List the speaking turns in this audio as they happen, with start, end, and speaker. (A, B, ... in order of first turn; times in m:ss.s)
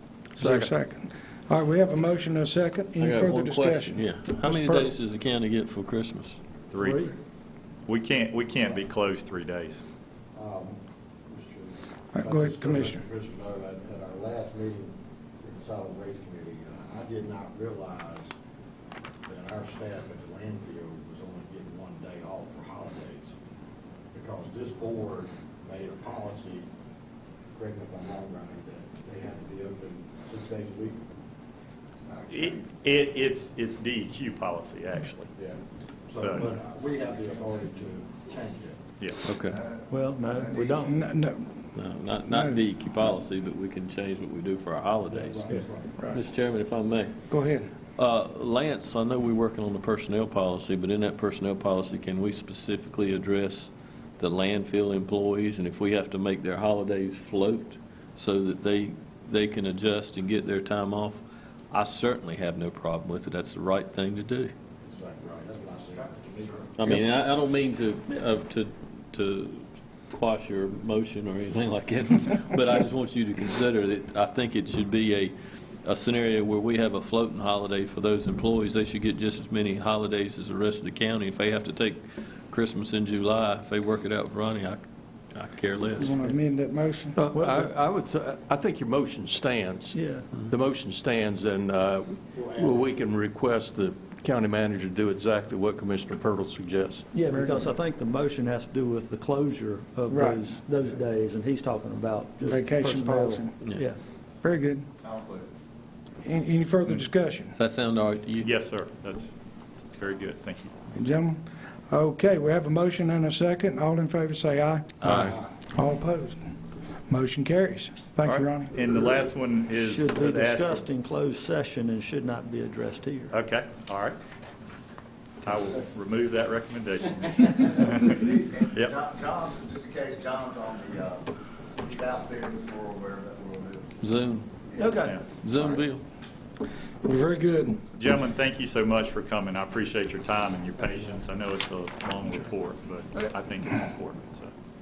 0:00.4-0:04.9 A
0:03.0-0:06.4 B
0:06.7-0:07.1 C
0:06.8-0:07.1 D
0:07.9-0:09.8 C
0:10.3-0:18.3 E
0:12.1-0:13.0 A
0:19.3-0:23.3 E
0:24.1-0:26.6 E
0:27.6-0:31.0 E
0:32.3-0:35.3 C
0:35.4-0:38.8 E
0:39.2-0:39.6 B
0:39.9-0:41.0 D
0:40.8-0:41.6 A
0:41.8-0:47.2 B
0:45.1-0:46.0 E
0:47.3-0:47.7 A
0:48.0-1:01.2 B
1:01.7-1:04.5 B
1:04.8-1:06.8 E
1:06.8-1:26.2 B
1:26.0-1:27.2 A
1:27.1-1:37.1 F
1:29.9-1:30.3 D
1:32.3-1:33.0 E
1:37.1-1:44.0 D
1:37.3-1:37.6 A
1:40.1-1:40.4 A
1:42.4-1:43.6 A
1:44.4-1:44.9 A
1:46.2-1:47.6 A
1:47.6-1:48.5 B
1:48.4-1:49.3 C
1:50.0-1:50.7 C
1:50.9-1:55.1 A
1:55.0-1:55.3 B
1:55.0-1:55.5 E
1:55.7-1:56.5 A
1:57.1-1:58.8 A
1:58.2-2:00.9 C
1:59.7-2:03.3 D
2:03.3-2:04.2 C
2:05.4-2:09.0 C
2:07.5-2:11.3 G
2:11.8-2:13.8 G
2:14.0-2:16.0 B
2:14.8-2:15.2 D
2:17.0-2:17.9 A
2:17.9-2:24.5 C